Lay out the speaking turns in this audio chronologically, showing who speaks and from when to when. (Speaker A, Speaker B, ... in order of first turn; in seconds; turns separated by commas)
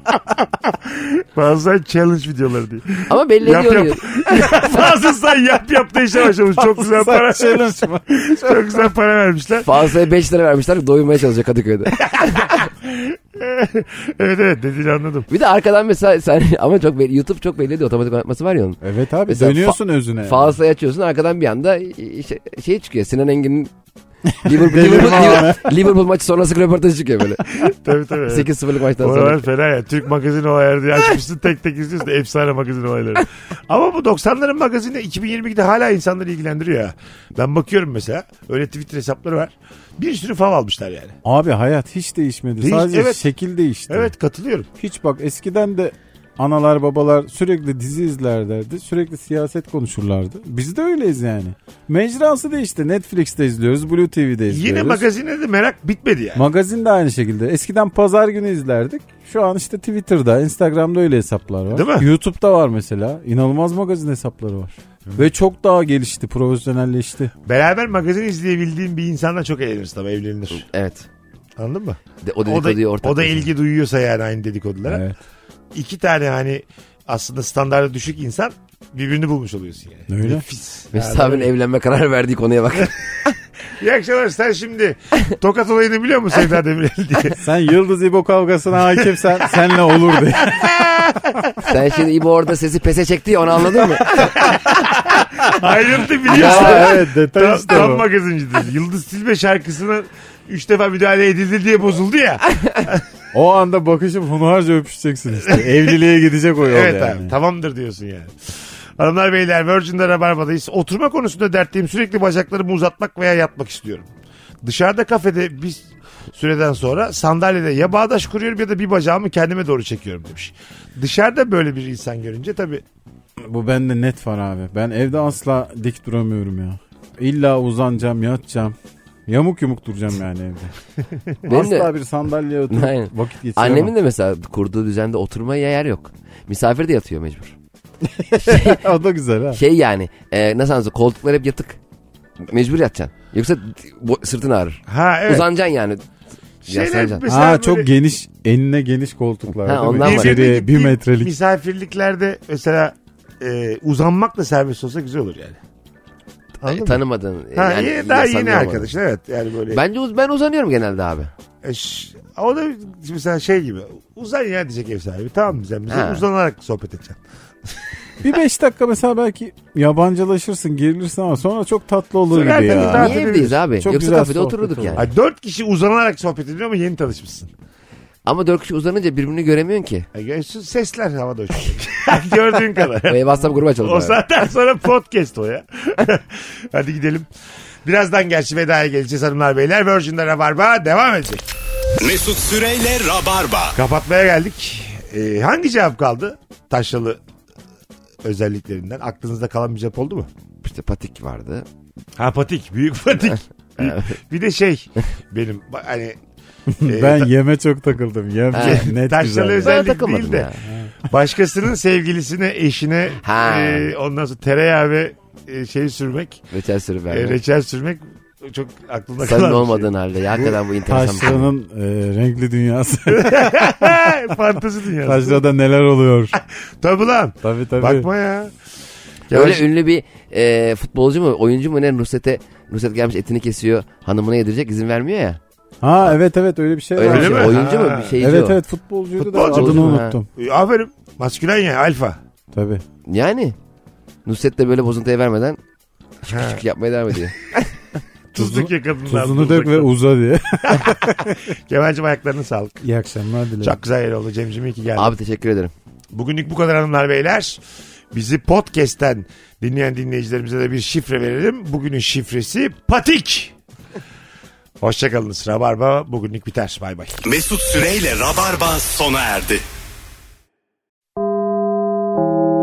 Speaker A: 0.8-9.8, Speaker B: 3.1-4.8, Speaker C: 6.6-8.8, Speaker B: 9.6-12.6, Speaker A: 12.1-15.2, Speaker B: 15.3-23.7, Speaker C: 18.8-20.6, Speaker C: 24.3-25.7, Speaker B: 24.4-27.6, Speaker A: 27.6-41.2, Speaker B: 28.2-29.4, Speaker C: 41.2-44.1, Speaker A: 42.6-43.3, Speaker A: 43.9-44.7, Speaker C: 44.8-55.0, Speaker A: 54.5-56.4, Speaker C: 56.3-67.3, Speaker A: 61.7-62.1, Speaker A: 67.4-70.7, Speaker B: 70.6-71.0, Speaker A: 71.6-75.0, Speaker B: 72.2-73.5, Speaker C: 74.8-75.2, Speaker A: 75.7-81.5, Speaker C: 80.1-80.4, Speaker B: 80.9-83.0, Speaker A: 83.8-87.4, Speaker C: 87.4-90.8, Speaker A: 90.5-91.5, Speaker B: 91.6-94.5, Speaker A: 94.2-103.0, Speaker C: 96.2-98.0, Speaker B: 96.4-96.9, Speaker C: 103.3-107.3, Speaker A: 105.5-105.9, Speaker A: 106.6-114.1, Speaker A: 114.6-122.8, Speaker C: 123.4-128.8, Speaker C: 129.3-130.7, Speaker C: 131.4-133.9, Speaker B: 131.5-131.9, Speaker B: 132.7-137.5, Speaker C: 138.1-139.6, Speaker B: 138.4-138.8, Speaker B: 139.5-141.8, Speaker B: 142.4-146.0, Speaker A: 144.9-145.5, Speaker B: 146.6-147.2, Speaker A: 146.6-147.9, Speaker C: 147.3-151.3, Speaker B: 149.6-150.4, Speaker A: 150.0-155.6, Speaker A: 156.6-157.0, Speaker B: 156.6-158.9, Speaker A: 157.5-159.8, Speaker B: 159.7-161.3, Speaker A: 161.6-167.2, Speaker B: 165.9-166.2, Speaker C: 168.2-175.0, Speaker A: 172.3-173.6, Speaker B: 172.7-175.1, Speaker A: 174.9-177.5, Speaker B: 178.2-180.1, Speaker A: 180.1-187.3, Speaker B: 183.0-184.5, Speaker A: 187.8-191.5, Speaker D: 192.0-193.8, Speaker A: 193.7-197.2, Speaker A: 198.2-200.3, Speaker B: 200.6-201.7, Speaker A: 202.2-206.2, Speaker B: 203.3-204.1, Speaker C: 206.7-209.8, Speaker A: 206.8-207.3, Speaker B: 208.5-208.9, Speaker A: 208.5-210.5, Speaker B: 209.6-210.6, Speaker A: 211.0-216.4, Speaker B: 213.2-213.9, Speaker B: 216.5-217.4, Speaker A: 217.1-219.9, Speaker B: 219.2-221.5, Speaker C: 220.9-223.8, Speaker A: 223.1-225.4, Speaker C: 225.0-226.4, Speaker A: 226.3-228.5, Speaker C: 227.4-228.1, Speaker A: 229.3-229.7, Speaker B: 229.3-235.4, Speaker C: 235.8-237.7, Speaker B: 236.9-238.6, Speaker A: 237.0-238.2, Speaker C: 238.2-240.2, Speaker A: 239.2-242.2, Speaker B: 239.5-240.2, Speaker C: 242.5-242.8, Speaker B: 243.1-243.6, Speaker B: 244.2-245.6, Speaker B: 246.2-247.5, Speaker A: 246.3-246.6, Speaker A: 248.3-249.9, Speaker C: 248.4-251.3, Speaker A: 250.7-252.8, Speaker C: 252.8-253.8, Speaker A: 253.6-255.1, Speaker B: 254.9-255.7, Speaker A: 256.1-257.6, Speaker A: 258.1-263.5, Speaker A: 264.8-267.2, Speaker D: 267.2-269.6